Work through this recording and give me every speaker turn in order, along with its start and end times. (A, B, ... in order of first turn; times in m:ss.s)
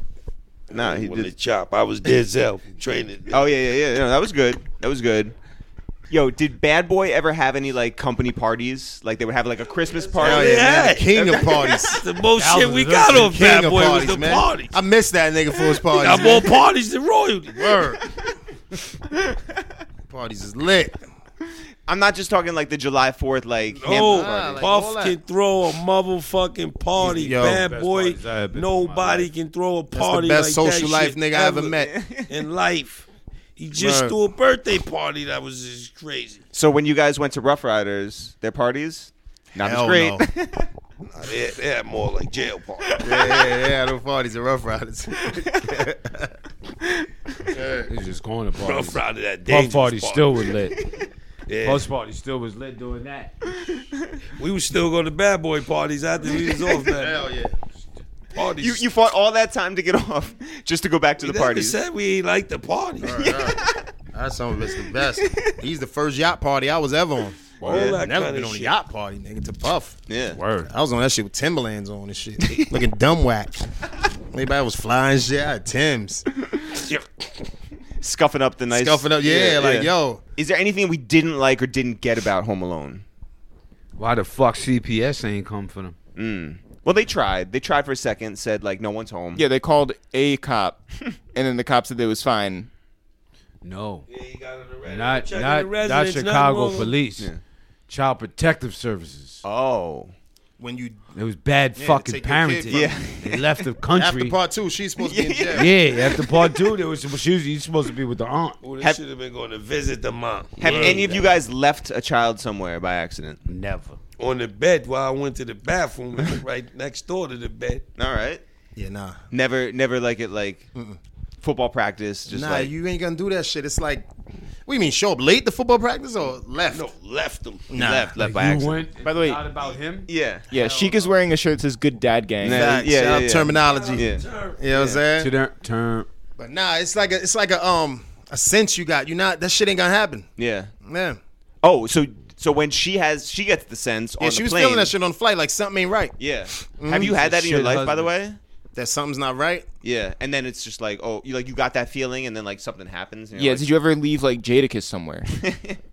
0:00.7-0:01.3 A
0:00.8-0:03.4 B
0:03.3-0:05.4 A
0:06.1-0:11.8 A
0:09.9-0:14.8 B
0:10.2-0:12.0 C
0:12.4-0:13.4 D
0:13.1-0:16.6 C
0:15.9-0:17.8 B
0:17.6-0:18.0 C
0:20.1-0:21.0 C
0:21.9-0:24.7 A
0:23.7-0:31.7 B
0:23.9-0:25.2 C
0:27.0-0:27.7 C
0:27.1-0:29.3 D
0:29.9-0:31.9 C
0:31.7-0:32.3 A
0:32.3-0:36.4 B
0:33.7-0:34.1 C
0:36.5-0:40.7 A
0:39.6-0:40.2 C
0:41.1-0:43.0 B
0:42.9-0:43.4 A
0:43.0-0:46.3 C
0:47.5-0:47.9 C
0:47.9-0:50.8 D
0:48.6-0:50.5 B
0:51.5-0:51.8 B
0:51.6-0:53.4 D
0:54.4-0:57.3 B
0:56.9-0:57.5 C
0:58.3-0:58.8 B
0:58.6-1:01.8 A
1:01.2-1:03.3 B
1:03.0-1:03.6 C
1:03.1-1:03.8 A
1:04.1-1:10.0 C
1:05.3-1:05.5 A
1:07.6-1:08.7 B
1:07.6-1:08.0 A
1:07.7-1:08.0 D
1:10.1-1:10.4 A
1:10.4-1:10.7 D
1:10.7-1:13.6 C
1:14.3-1:16.2 C
1:16.6-1:17.3 B
1:18.0-1:23.0 A
1:18.7-1:20.2 C
1:24.0-1:26.0 D
1:26.2-1:29.4 A
1:29.4-1:30.8 E
1:31.3-1:32.7 E
1:33.6-1:34.0 D
1:34.1-1:37.0 B
1:34.8-1:37.3 D
1:37.9-1:39.4 D
1:39.4-1:40.1 A
1:40.6-1:41.0 C
1:41.1-1:44.4 D
1:41.8-1:43.0 C
1:42.7-1:43.5 A
1:43.9-1:45.7 C
1:45.0-1:46.2 A
1:45.5-1:48.6 D
1:48.6-1:51.3 B
1:50.6-1:53.4 A
1:50.6-1:51.1 D
1:53.5-1:54.0 D
1:54.2-1:57.8 B
1:58.0-1:58.4 A
1:58.8-1:59.2 C
1:59.3-2:00.7 A
2:01.4-2:02.7 A
2:02.3-2:04.1 C
2:04.7-2:06.9 C
2:06.7-2:07.7 B
2:07.7-2:08.1 C
2:07.7-2:08.8 A
2:08.2-2:10.1 D
2:09.0-2:09.4 E
2:10.1-2:10.5 A
2:10.5-2:11.1 C
2:10.5-2:12.8 E
2:12.4-2:15.0 A
2:12.4-2:15.3 C
2:13.6-2:14.6 B
2:15.2-2:16.1 D
2:16.4-2:20.3 C
2:20.4-2:20.7 A
2:20.8-2:21.2 C
2:21.6-2:24.9 A
2:24.2-2:27.1 C
2:26.2-2:28.4 A
2:26.9-2:28.1 D
2:28.8-2:29.7 C
2:29.8-2:33.7 A
2:33.4-2:35.3 E
2:35.4-2:35.8 A